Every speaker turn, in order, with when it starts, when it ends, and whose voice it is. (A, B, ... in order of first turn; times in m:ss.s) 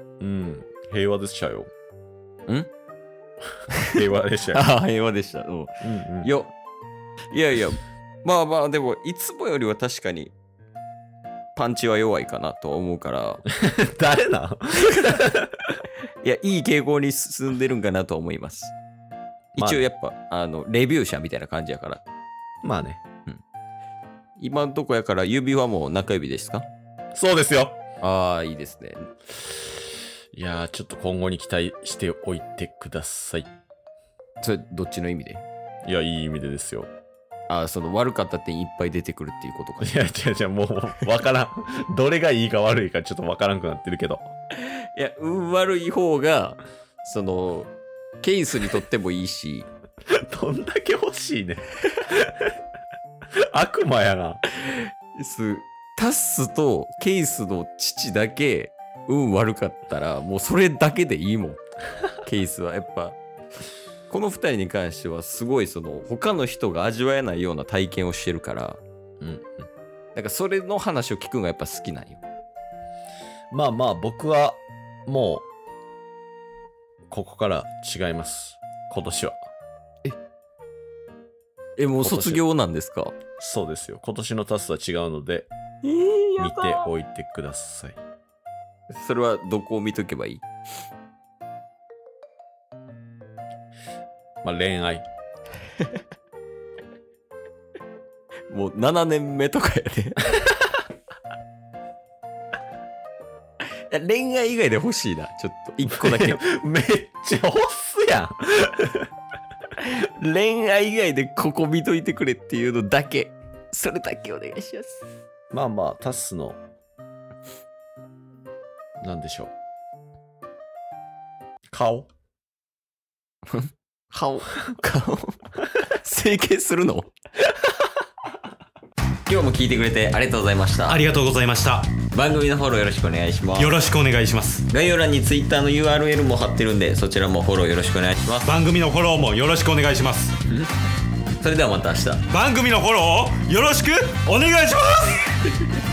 0:00.2-0:01.7 A
0:03.8-0:04.6 A
0:04.5-0:06.5 B
0:05.8-0:06.3 A
0:07.3-0:10.3 B
0:11.6-0:13.4 B
0:13.5-0:15.5 A
0:14.9-0:15.2 B
0:16.2-0:18.7 B
0:19.6-0:19.8 A
0:19.6-0:22.0 B
0:22.6-0:23.0 A
0:24.4-0:26.6 B
0:27.1-0:27.8 A
0:28.0-0:29.1 B
0:30.3-0:33.5 A
0:34.4-0:35.4 B
0:35.8-0:36.9 A
0:37.5-0:40.1 B
0:39.8-0:44.3 A
0:44.9-0:47.7 B
0:48.2-0:49.7 B
0:50.3-0:52.3 A
0:53.5-0:54.4 A
0:54.6-1:01.6 B
1:02.2-1:03.2 B
1:04.1-1:08.8 B
1:09.2-1:09.7 A
1:10.1-1:12.2 B
1:13.5-1:15.5 A
1:17.1-1:19.5 A
1:21.8-1:23.1 B
1:22.0-1:22.4 A
1:23.4-1:25.5 A
1:25.8-1:26.9 B
1:26.4-1:28.0 A
1:28.9-1:30.4 B
1:34.4-1:35.0 A
1:38.5-1:40.2 B
1:43.9-1:46.4 B
1:45.9-1:49.1 A
1:49.8-1:55.0 B
1:55.5-1:56.6 A
1:59.0-1:59.5 A
2:01.7-2:02.1 A
2:03.5-2:07.1 B
2:09.2-2:11.0 B
2:10.9-2:11.9 C
2:12.1-2:13.8 B
2:13.6-2:14.7 C
2:14.7-2:18.5 B
2:18.4-2:20.3 C
2:21.4-2:22.3 B
2:22.3-2:25.3 C